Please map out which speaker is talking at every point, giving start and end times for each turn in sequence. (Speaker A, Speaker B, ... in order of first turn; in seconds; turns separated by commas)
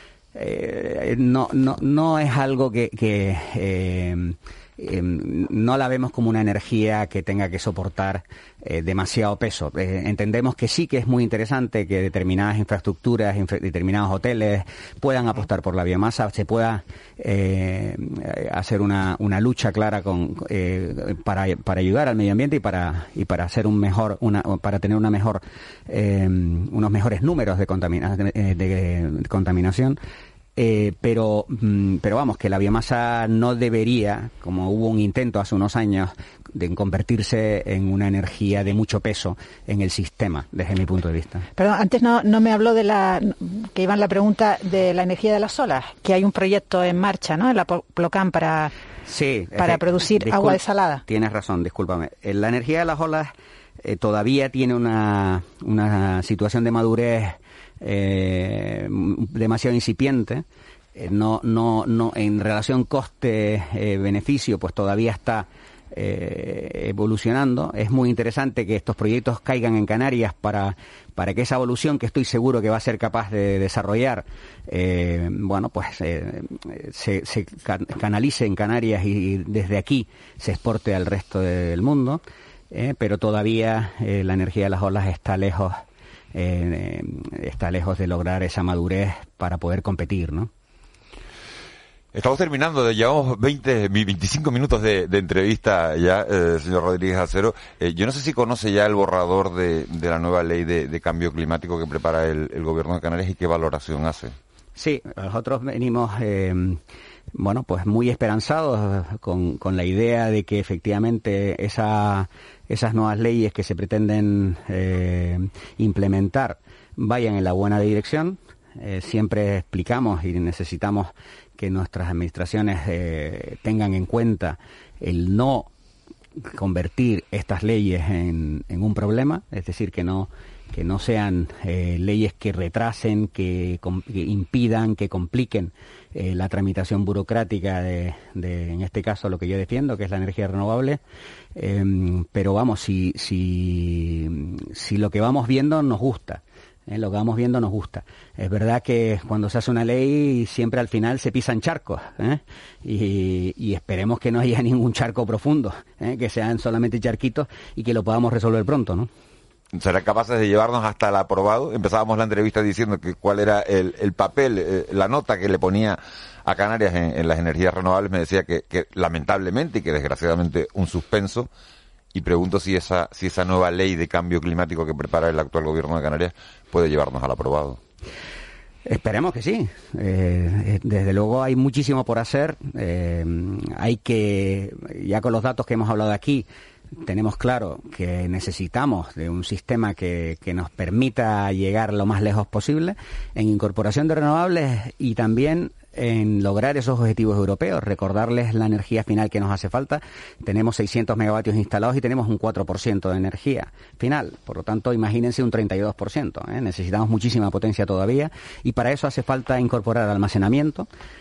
Speaker A: 0.3-30.0, Speaker A: 30.6-41.5, Speaker B: 41.6-48.7, Speaker A: 49.0-53.3, Speaker B: 49.6-51.0, Speaker A: 53.8-60.4, Speaker A: 60.9-85.8, Speaker A: 86.3-90.5, Speaker C: 92.1-104.3, Speaker A: 104.8-106.8, Speaker A: 107.3-125.7, Speaker A: 126.4-141.0, Speaker A: 141.5-159.1, Speaker C: 159.7-171.5, Speaker C: 172.1-177.8, Speaker A: 178.8-186.4, Speaker A: 187.0-210.9